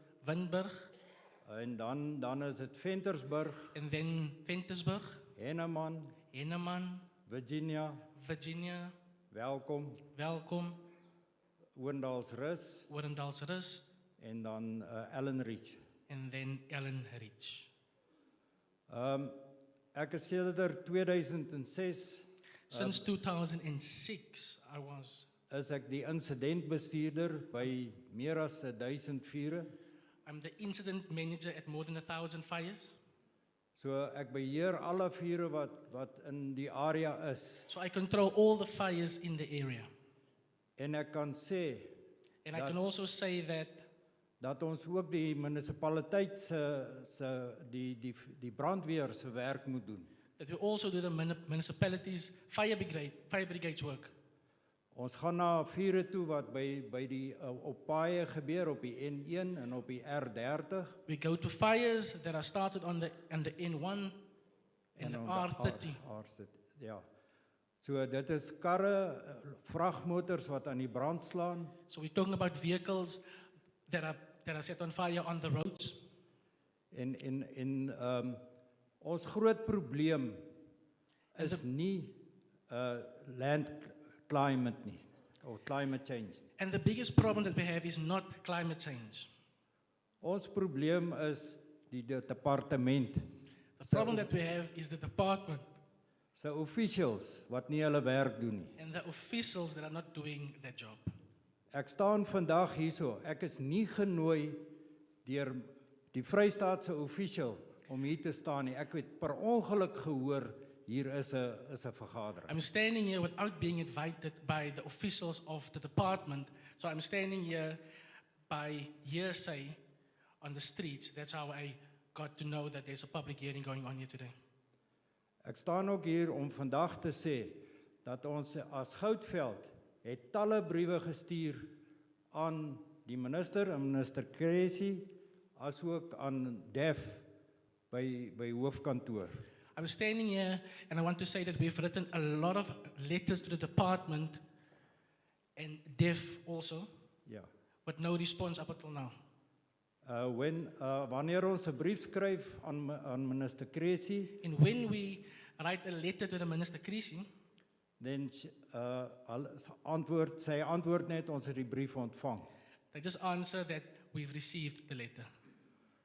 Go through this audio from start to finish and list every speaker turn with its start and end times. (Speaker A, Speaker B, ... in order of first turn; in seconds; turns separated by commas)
Speaker A: 0.2-0.9, Speaker B: 1.4-3.8, Speaker A: 3.7-5.2, Speaker B: 5.4-6.2, Speaker A: 6.3-7.1, Speaker B: 7.3-8.0, Speaker A: 8.1-8.9, Speaker B: 9.3-10.0, Speaker A: 10.1-10.8, Speaker B: 11.8-12.9, Speaker A: 12.9-13.8, Speaker B: 14.2-15.8, Speaker A: 16.1-17.7, Speaker B: 18.9-19.4, Speaker B: 19.9-23.1, Speaker A: 22.7-25.3, Speaker B: 25.5-29.7, Speaker A: 30.3-33.0, Speaker B: 33.8-37.7, Speaker A: 37.7-39.9, Speaker B: 40.8-41.9, Speaker A: 42.5-43.8, Speaker B: 42.5-42.8, Speaker B: 44.4-50.1, Speaker A: 50.4-54.1, Speaker B: 54.9-61.0, Speaker A: 61.1-64.1, Speaker B: 64.9-67.0, Speaker A: 65.0-66.0, Speaker B: 67.8-71.7, Speaker A: 71.9-73.2, Speaker A: 73.9-76.0, Speaker B: 76.9-78.4, Speaker B: 79.0-80.5, Speaker B: 81.3-82.2, Speaker A: 81.4-81.6, Speaker B: 82.7-86.5, Speaker A: 86.6-89.3, Speaker B: 90.2-93.3, Speaker A: 93.8-95.7, Speaker B: 93.8-94.3, Speaker B: 96.3-98.8, Speaker A: 98.8-101.1, Speaker B: 101.7-104.6, Speaker B: 105.2-112.5, Speaker A: 112.5-117.8, Speaker A: 118.5-119.8, Speaker A: 120.4-124.3, Speaker B: 125.4-131.7, Speaker B: 132.3-137.3, Speaker B: 137.9-139.4, Speaker A: 139.8-144.4, Speaker A: 145.6-146.9, Speaker A: 147.9-149.1, Speaker B: 150.0-154.4, Speaker A: 154.4-157.3, Speaker B: 158.0-162.5, Speaker A: 162.9-165.3